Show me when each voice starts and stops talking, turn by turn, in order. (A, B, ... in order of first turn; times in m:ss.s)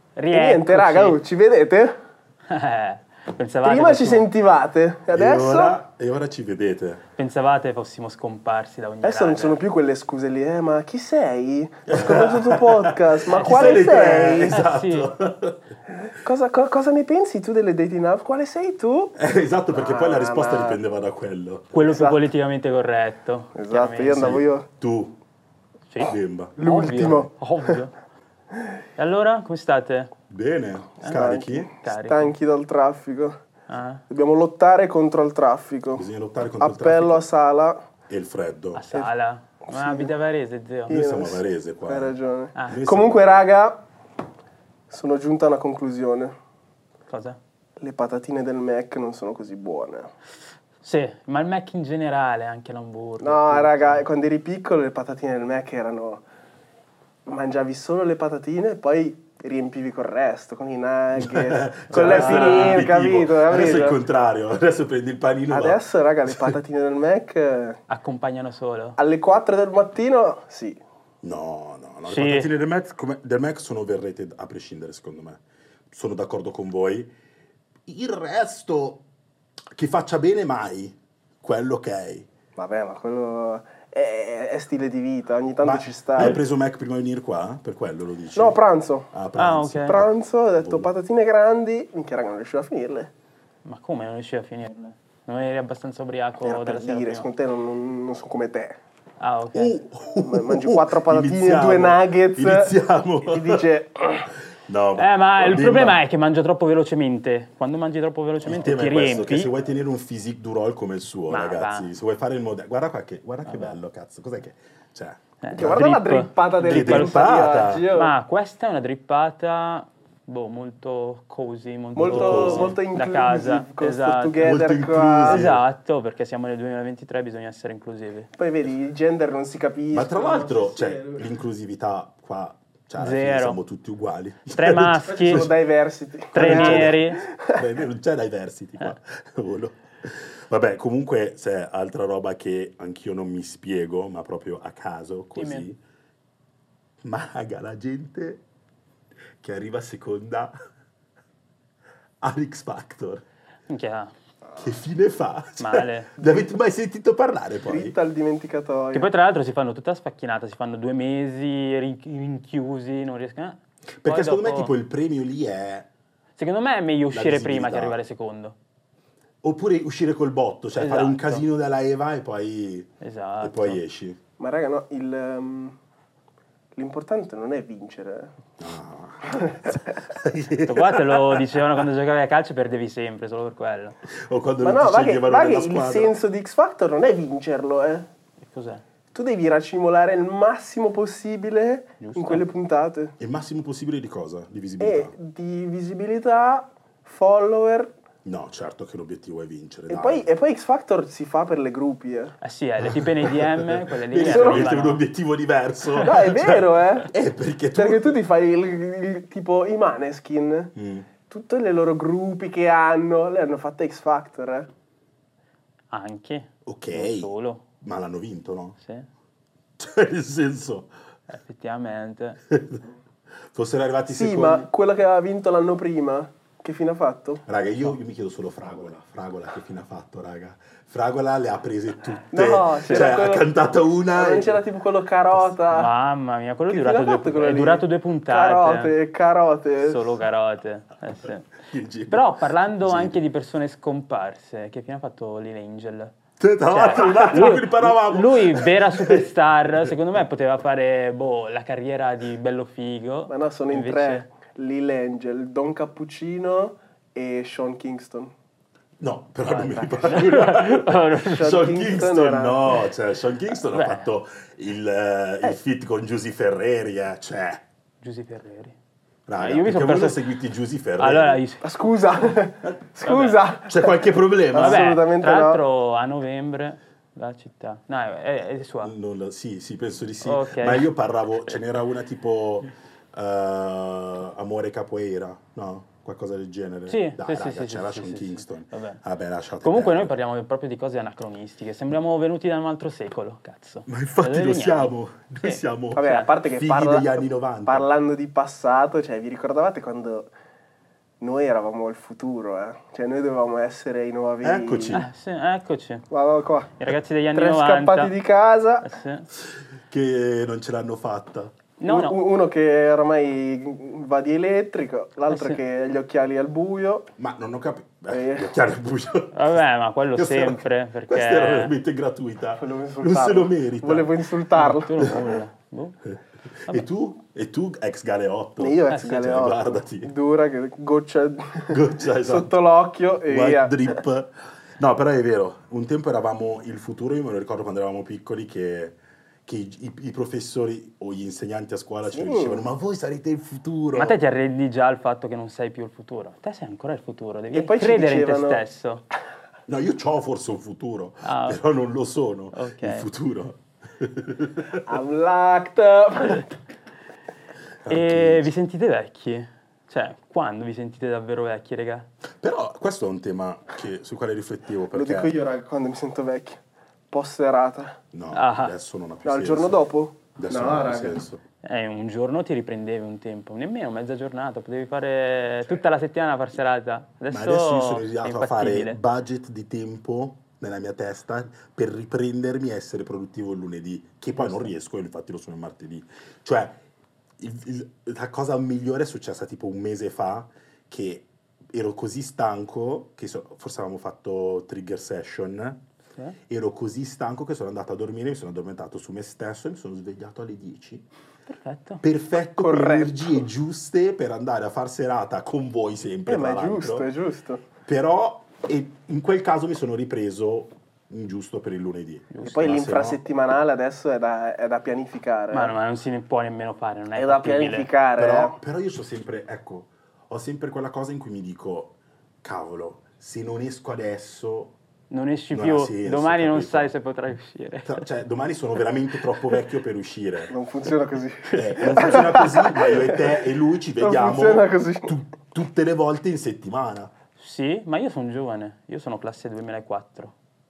0:00.2-0:01.2 A
0:00.3-0:02.0 B
0:02.5-0:04.3 A
0:03.6-0:05.8 B
0:05.1-0:07.0 C
0:07.2-0:09.6 A
0:09.0-0:14.6 B
0:11.9-0:15.6 C
0:13.3-0:13.9 A
0:14.5-0:15.1 A
0:16.0-0:19.2 B
0:19.2-0:22.0 C
0:19.7-0:20.8 B
0:21.7-0:24.4 A
0:21.9-0:22.2 B
0:23.5-0:24.7 B
0:24.1-0:25.2 C
0:25.9-0:27.9 A
0:26.0-0:26.6 C
0:26.6-0:27.8 B
0:29.0-0:30.1 A
0:30.3-0:31.7 C
0:31.1-0:33.4 B
0:31.8-0:32.3 A
0:33.7-0:34.0 A
0:34.1-0:36.1 B
0:36.0-0:37.2 C
0:36.6-0:37.9 B
0:38.1-0:38.8 C
0:38.8-0:41.0 A
0:39.6-0:40.1 B
0:40.9-0:42.1 C
0:40.9-0:43.8 B
0:42.7-0:43.4 C
0:44.9-0:46.3 B
0:47.1-0:47.4 A
0:47.8-0:50.1 B
0:50.8-0:54.0 A
0:53.2-0:56.2 B
0:57.3-1:04.0 B
1:01.2-1:06.6 C
1:01.9-1:02.9 A
1:05.5-1:07.8 B
1:07.9-1:09.0 A
1:09.0-1:10.8 B
1:11.2-1:17.1 C
1:12.1-1:12.5 A
1:17.9-1:19.0 C
1:19.7-1:22.3 C
1:22.6-1:26.4 B
1:25.6-1:28.6 C
1:28.4-1:29.1 B
1:29.1-1:30.9 C
1:29.4-1:30.0 A
1:29.9-1:33.1 B
1:33.6-1:37.3 A
1:36.4-1:38.8 B
1:39.2-1:39.8 A
1:39.5-1:43.7 C
1:40.2-1:44.3 B
1:44.6-1:46.0 C
1:45.0-1:49.5 A
1:48.4-1:55.8 C
1:51.3-1:51.9 A
1:53.5-1:53.7 A
1:55.4-1:57.3 A
1:55.5-1:58.1 B
1:56.6-1:57.9 C
1:57.9-2:04.6 A
2:02.0-2:02.8 C
2:02.0-2:05.5 B
2:04.4-2:05.6 C
2:05.2-2:08.3 A
2:08.4-2:11.2 B
2:09.9-2:15.5 C
2:13.0-2:13.6 A
2:14.5-2:15.5 A
2:15.1-2:17.6 B
2:16.3-2:17.2 A
2:16.3-2:25.8 C
2:25.4-2:25.7 A
2:27.0-2:28.4 C
2:29.4-2:30.6 C
2:32.2-2:33.2 C
2:33.7-2:34.1 A
2:34.6-2:38.0 C
2:35.6-2:36.1 A
2:37.7-2:39.1 B
2:38.9-2:44.7 A
2:44.0-2:45.9 C
2:46.4-2:48.6 A
2:47.1-2:48.0 C
2:49.4-2:52.9 C
2:50.8-2:51.4 A
2:53.0-2:53.8 A
2:53.4-2:54.2 C
2:54.4-2:55.8 B
2:56.8-2:58.3 B
2:58.6-3:01.4 C
3:00.6-3:04.0 A
3:04.1-3:06.1 C
3:04.6-3:08.1 B
3:08.4-3:08.8 A
3:09.1-3:13.2 B
3:12.0-3:12.4 A
3:13.2-3:15.1 C
3:14.8-3:17.9 B
3:18.2-3:20.3 C
3:19.9-3:22.4 B
3:22.4-3:25.0 A
3:22.8-3:28.2 C
3:24.2-3:24.7 B
3:26.0-3:27.1 B
3:27.8-3:30.7 B
3:30.8-3:31.1 C
3:31.3-3:34.7 B
3:35.9-3:37.6 A
3:36.6-3:37.3 C
3:37.8-3:38.8 C
3:38.8-3:39.1 A
3:39.8-3:40.9 C
3:41.3-3:42.4 A
3:42.5-3:42.8 C
3:43.5-3:44.7 C
3:44.1-3:47.5 B
3:47.5-3:54.6 C
3:52.3-3:53.6 B
3:52.8-3:53.1 A
3:54.1-3:55.9 B
3:55.7-3:58.9 A
3:56.7-4:00.0 B
3:59.8-4:01.5 A
4:01.7-4:03.2 C
4:02.1-4:14.2 A
4:06.4-4:09.2 C
4:13.3-4:18.3 B
4:19.0-4:27.6 C
4:19.5-4:21.7 A
4:21.2-4:22.7 B
4:23.7-4:24.1 A
4:28.0-4:28.8 A
4:29.3-4:31.4 C
4:29.4-4:30.2 A
4:31.0-4:31.7 A
4:31.6-4:35.6 B
4:33.0-4:33.4 A
4:33.6-4:35.0 C
4:34.6-4:38.9 A
4:38.8-4:50.1 C
4:40.2-4:40.9 A
4:46.9-4:49.0 A
4:49.6-4:56.3 A
4:53.9-4:57.9 C
4:55.9-5:00.3 B
5:01.2-5:05.0 B
5:04.4-5:05.0 C
5:04.9-5:06.1 A
5:06.1-5:06.7 B
5:06.8-5:08.1 A
5:07.3-5:08.9 B
5:08.8-5:09.3 A
5:09.9-5:11.6 C
5:11.8-5:12.2 A
5:11.8-5:17.1 B
5:15.3-5:15.6 A
5:17.2-5:19.6 C
5:18.1-5:18.5 B
5:19.3-5:21.8 A
5:20.1-5:24.1 C
5:22.6-5:25.2 B
5:24.6-5:26.0 A
5:26.6-5:30.1 C
5:28.6-5:34.0 B
5:31.7-5:32.5 C
5:33.3-5:44.2 C
5:42.1-5:42.7 B
5:43.9-5:49.0 A
5:47.5-5:48.6 B
5:49.7-5:54.9 C
5:51.2-5:51.6 A
5:52.5-5:53.1 A
5:54.8-5:56.6 B
5:57.8-5:58.5 C
5:57.9-6:02.1 A
6:02.4-6:05.4 C
6:04.9-6:06.6 B
6:07.1-6:08.0 B
6:08.1-6:09.8 C
6:08.3-6:08.8 A
6:09.2-6:11.2 B
6:10.4-6:11.4 C
6:11.6-6:19.0 A
6:17.3-6:26.8 C
6:24.4-6:24.7 A
6:27.4-6:35.8 C
6:36.5-6:41.1 C
6:41.5-6:42.0 A
6:42.0-6:47.1 C
6:42.6-6:43.4 B
6:46.3-6:47.6 B
6:47.8-6:53.2 C
6:52.3-6:52.6 A
6:52.4-6:55.7 B
6:55.5-6:57.9 A
6:57.1-6:58.6 B
6:58.2-7:04.8 C
7:05.1-7:08.0 A
7:05.5-7:06.9 C
7:07.8-7:10.5 C
7:10.5-7:13.5 B
7:11.5-7:17.1 C
7:14.0-7:15.1 B
7:17.4-7:20.4 A